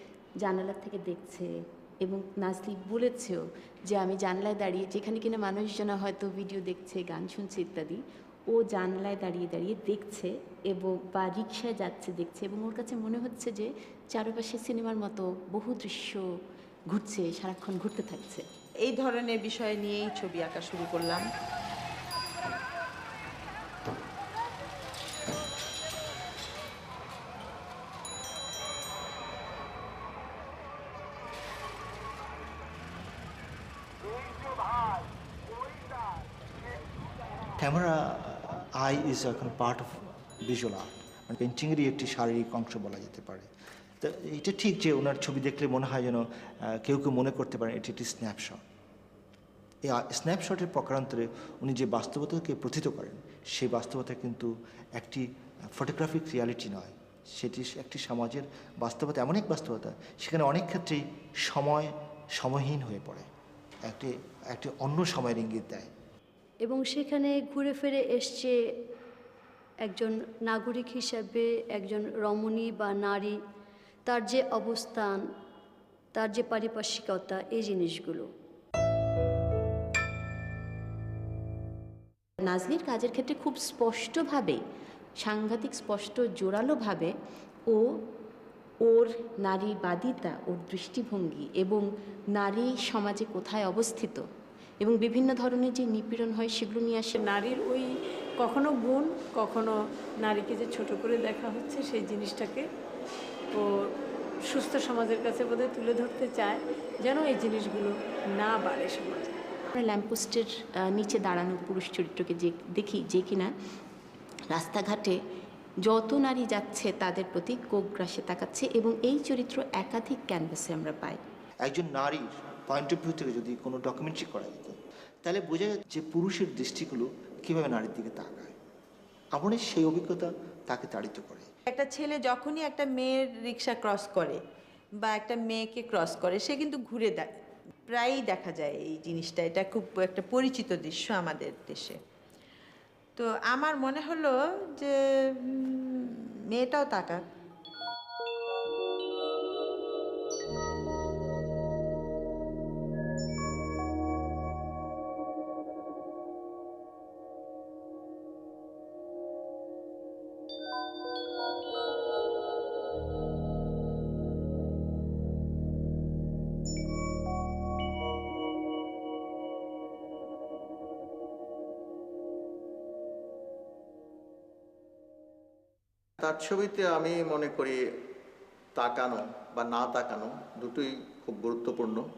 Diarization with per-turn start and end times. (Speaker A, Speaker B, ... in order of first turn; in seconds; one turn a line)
Speaker A: 0.4-16.2
Speaker A: 16.9-18.5
Speaker B: 18.8-21.3
Speaker C: 37.6-48.6
Speaker C: 49.8-63.3
Speaker C: 63.9-65.9
Speaker D: 66.6-68.7
Speaker D: 69.8-73.4
Speaker D: 74.1-75.3
Speaker D: 76.1-78.3
Speaker A: 82.4-84.6
Speaker A: 85.2-87.1
Speaker A: 87.7-88.0
Speaker A: 88.8-94.2
Speaker A: 94.8-97.2
Speaker E: 97.2-102.7
Speaker E: 103.5-103.9
Speaker E: 104.5-109.4
Speaker A: 109.7-113.5
Speaker A: 114.5-115.2
Speaker A: 115.8-121.2
Speaker C: 121.6-128.6
Speaker C: 129.3-131.5
Speaker B: 131.7-134.4
Speaker B: 135.0-137.3
Speaker B: 137.9-142.0
Speaker B: 143.2-147.2
Speaker F: 176.2-177.8
Speaker F: 178.8-182.1